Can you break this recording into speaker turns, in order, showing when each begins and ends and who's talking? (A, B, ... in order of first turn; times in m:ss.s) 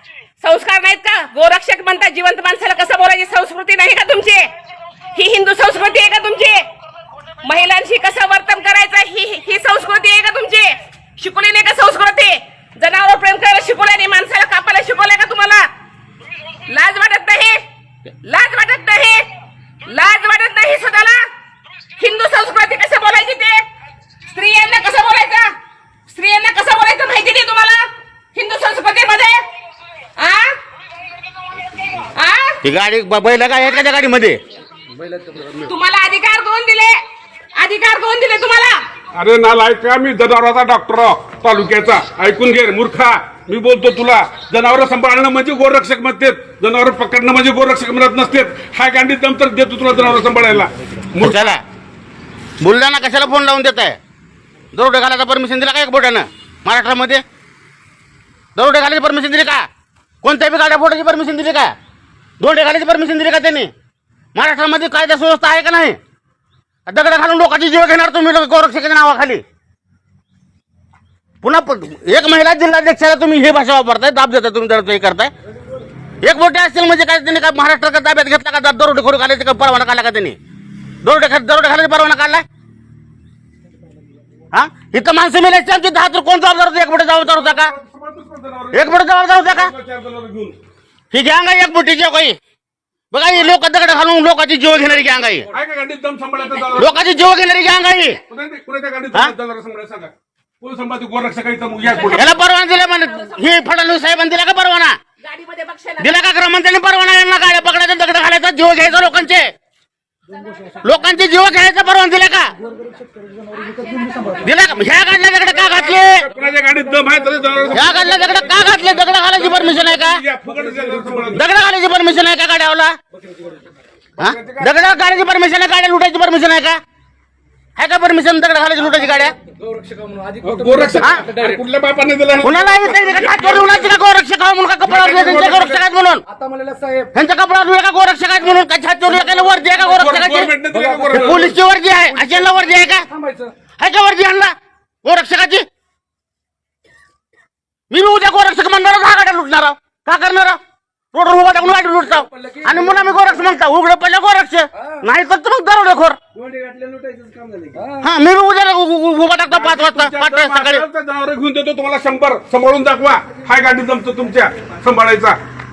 0:00.4-0:04.5 A
0:05.1-0:06.6 A
0:07.4-0:15.7 A
0:16.7-0:17.6 A
0:18.2-0:19.3 A
0:19.8-0:21.2 A
0:22.0-0:23.6 A
0:24.3-0:25.5 A
0:26.1-0:29.4 A
0:30.2-0:30.5 A
0:32.0-0:32.6 A
0:32.6-0:34.4 B
0:34.9-0:35.7 C
0:35.6-0:37.0 A
0:37.6-0:38.8 A
0:39.1-0:51.5 D
0:51.2-0:51.6 B
0:52.6-0:54.0 B
0:54.7-0:57.2 B
0:58.6-0:59.6 B
1:00.2-1:01.7 B
1:02.4-1:03.7 B
1:04.3-1:06.0 B
1:06.9-1:09.4 B
1:11.4-1:15.3 B
1:16.2-1:20.4 B
1:21.0-1:22.4 B
1:24.5-1:27.7 B
1:27.2-1:30.6 D
1:28.7-1:29.7 B
1:31.1-1:32.4 B
1:33.1-1:35.5 B
1:35.5-1:36.9 D
1:36.7-1:38.2 B
1:38.3-1:42.3 D
1:42.0-1:42.3 A
1:42.1-1:45.0 B
1:43.0-1:43.5 A
1:45.2-1:46.2 A
1:46.0-1:49.5 B
1:50.8-1:52.5 B
1:53.6-1:54.4 C
1:54.4-1:56.3 B
1:55.6-2:01.5 D
1:57.7-2:00.2 B
2:00.5-2:01.3 C
2:01.3-2:03.0 B
2:04.2-2:04.8 D
2:04.2-2:06.8 B
2:07.8-2:09.3 B
2:08.9-2:11.6 C
2:10.4-2:14.0 D
2:12.4-2:16.2 B
2:14.8-2:15.8 D
2:16.3-2:17.1 C
2:17.1-2:20.5 B
2:19.2-2:19.8 C
2:19.9-2:21.6 D
2:20.6-2:21.4 C
2:21.1-2:23.0 B
2:22.1-2:23.5 C
2:23.8-2:25.6 B
2:27.9-2:30.6 B
2:31.1-2:36.2 B
2:32.0-2:33.5 C
2:36.3-2:38.1 C
2:38.0-2:40.8 B
2:39.5-2:45.4 D